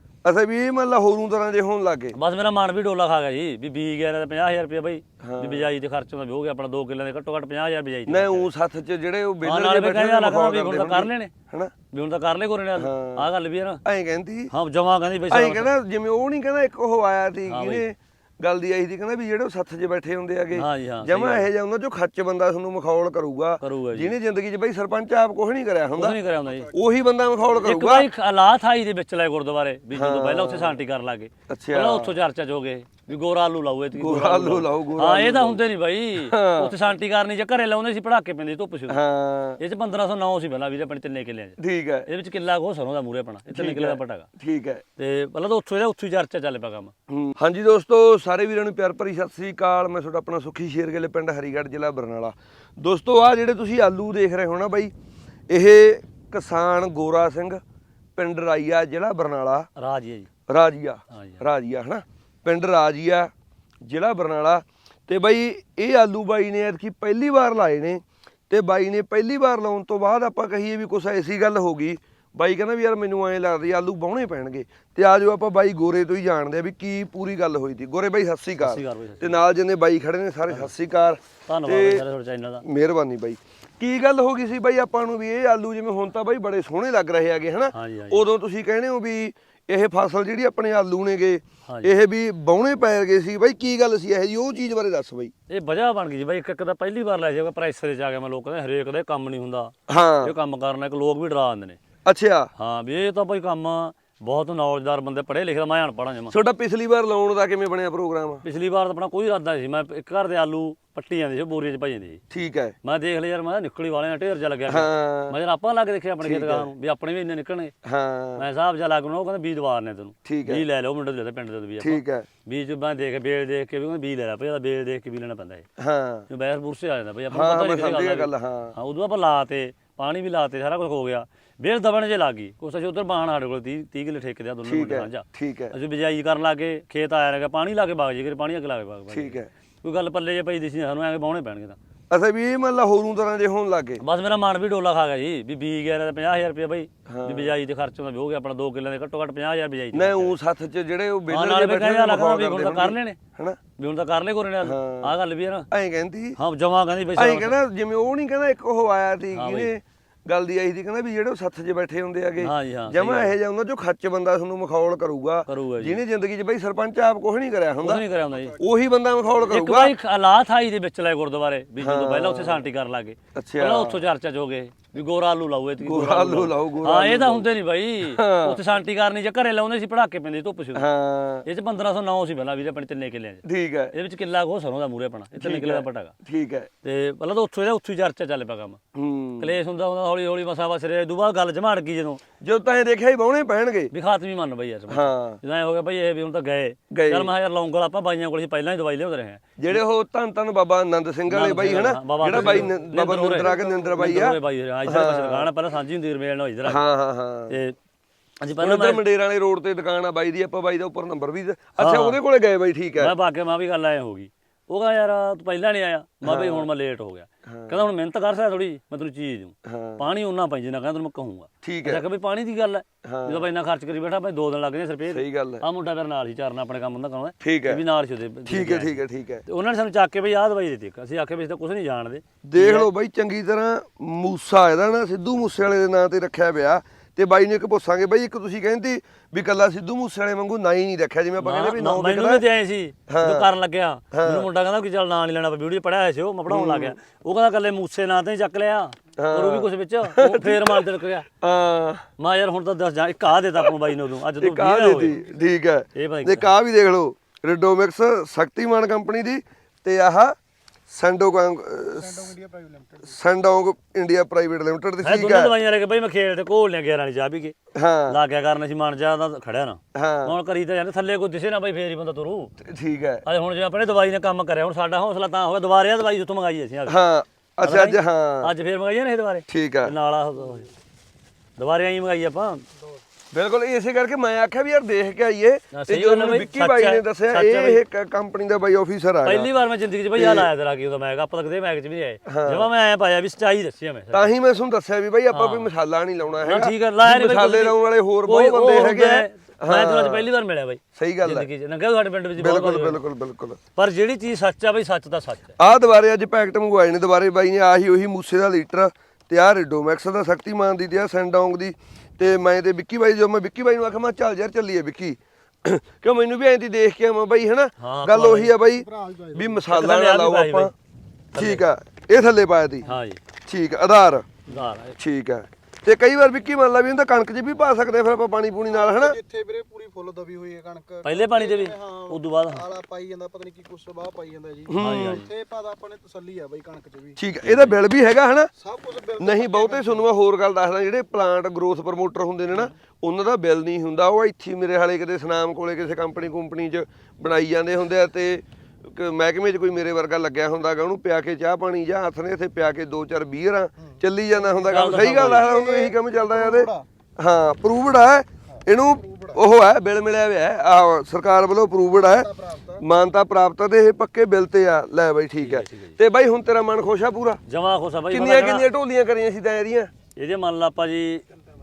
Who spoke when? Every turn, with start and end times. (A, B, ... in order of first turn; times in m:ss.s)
0:00.2-0:02.2 A
0:02.1-0:08.5 B
0:05.2-0:05.7 A
0:08.1-0:11.7 A
0:09.4-0:11.3 B
0:11.9-0:13.8 B
0:12.8-0:13.2 A
0:13.8-0:14.5 A
0:14.5-0:15.7 B
0:15.3-0:26.2 A
0:17.5-0:17.8 B
0:20.6-0:21.5 B
0:23.6-0:24.1 B
0:26.0-0:26.7 B
0:26.7-0:28.1 A
0:27.5-0:39.0 B
0:29.9-0:30.8 A
0:31.5-0:32.2 A
0:34.0-0:35.6 A
0:36.2-0:36.7 A
0:38.9-0:39.6 A
0:39.6-0:44.3 B
0:41.6-0:42.1 A
0:43.5-0:44.8 A
0:45.0-0:46.9 B
0:47.1-0:54.9 A
0:55.5-0:57.6 A
0:58.2-0:59.7 A
0:59.8-1:00.3 B
1:00.5-1:03.3 A
1:01.1-1:01.4 B
1:03.8-1:22.0 A
1:18.6-1:19.4 B
1:21.5-1:22.6 B
1:22.6-1:35.3 A
1:27.7-1:28.2 B
1:31.6-1:31.9 B
1:35.5-1:41.8 B
1:39.9-1:40.3 A
1:42.0-1:42.5 A
1:42.6-1:46.3 B
1:46.3-1:48.4 A
1:48.4-1:52.2 B
1:52.3-1:52.7 A
1:52.8-1:57.7 B
1:54.7-1:55.4 A
1:56.2-1:56.7 A
1:57.8-1:58.4 A
1:58.4-2:05.6 B
2:00.2-2:00.6 A
2:01.8-2:02.3 A
2:05.8-2:06.3 A
2:06.3-2:21.8 B
2:07.3-2:08.7 A
2:14.6-2:15.7 A
2:19.1-2:19.5 A
2:22.1-2:24.0 A
2:24.0-2:30.3 B
2:27.1-2:27.5 A
2:29.9-2:33.6 A
2:31.3-2:33.2 B
2:33.8-2:35.7 B
2:34.6-2:35.1 A
2:35.7-2:36.4 A
2:36.4-2:37.6 B
2:37.2-2:48.0 A
2:39.4-2:39.7 B
2:42.4-2:43.3 B
2:45.5-2:46.0 B
2:47.8-2:48.6 B
2:48.6-2:49.9 A
2:49.4-3:00.8 B
2:51.8-2:52.6 A
2:53.3-2:54.0 A
2:55.8-2:57.5 A
2:58.0-2:58.6 A
3:00.7-3:01.4 A
3:01.4-3:03.4 B
3:03.4-3:03.9 A
3:03.9-3:06.1 B
3:05.4-3:06.7 A
3:06.8-3:08.8 B
3:08.9-3:09.5 A
3:09.4-3:12.2 B
3:12.4-3:13.9 A
3:13.9-3:19.8 B
3:14.9-3:15.4 A
3:16.9-3:17.3 A
3:19.6-3:25.5 A
3:21.3-3:26.8 B
3:23.6-3:23.8 C
3:26.6-3:27.6 A
3:27.5-3:27.8 B
3:28.4-3:29.0 B
3:28.6-3:33.1 A
3:31.8-3:32.2 B
3:33.0-3:52.9 B
3:36.2-3:36.7 A
3:37.4-3:37.8 A
3:39.6-3:40.0 A
3:41.6-3:42.0 A
3:43.0-3:43.4 A
3:45.1-3:45.6 A
3:47.4-3:47.8 A
3:48.4-3:49.4 A
3:52.5-4:02.4 A
4:01.4-4:11.3 B
4:03.1-4:03.5 A
4:04.1-4:04.5 A
4:06.5-4:07.0 A
4:09.2-4:10.8 A
4:11.4-4:12.0 A
4:12.2-4:15.2 B
4:14.4-4:20.3 A
4:15.9-4:16.5 B
4:20.9-4:22.3 A
4:22.0-4:23.2 C
4:23.0-4:25.5 A
4:25.0-4:27.6 B
4:27.7-4:28.2 A
4:28.1-4:32.5 B
4:29.9-4:30.3 A
4:32.6-4:33.2 A
4:33.2-4:37.0 B
4:36.9-4:38.5 A
4:37.6-4:40.7 B
4:39.5-4:39.9 A
4:41.6-4:42.6 B
4:43.3-4:49.5 A
4:45.7-4:47.8 B
4:49.2-4:54.2 B
4:50.2-4:50.5 A
4:52.2-4:52.7 A
4:54.1-5:00.3 A
4:55.3-4:55.7 B
4:56.4-5:03.0 B
5:00.9-5:01.5 A
5:02.4-5:03.6 A
5:03.8-5:05.6 B
5:05.6-5:20.7 A
5:17.8-5:18.5 B
5:18.6-5:19.6 C
5:19.7-5:20.7 B
5:21.3-5:21.6 B
5:21.3-5:22.9 A
5:22.8-5:23.2 B
5:23.5-5:24.4 A
5:24.5-5:25.0 B
5:25.0-5:29.2 A
5:28.7-5:37.2 C
5:31.0-5:32.6 B
5:34.7-5:35.2 A
5:34.8-5:35.2 B
5:37.2-5:38.5 A
5:37.4-5:37.8 B
5:38.6-5:40.0 C
5:39.2-6:07.4 A
5:54.7-5:55.5 B
5:55.3-5:56.8 C
5:58.5-5:59.4 C
6:02.0-6:02.8 C
6:05.4-6:06.0 B
6:07.5-6:08.7 B
6:08.1-6:09.9 A
6:10.1-6:11.2 B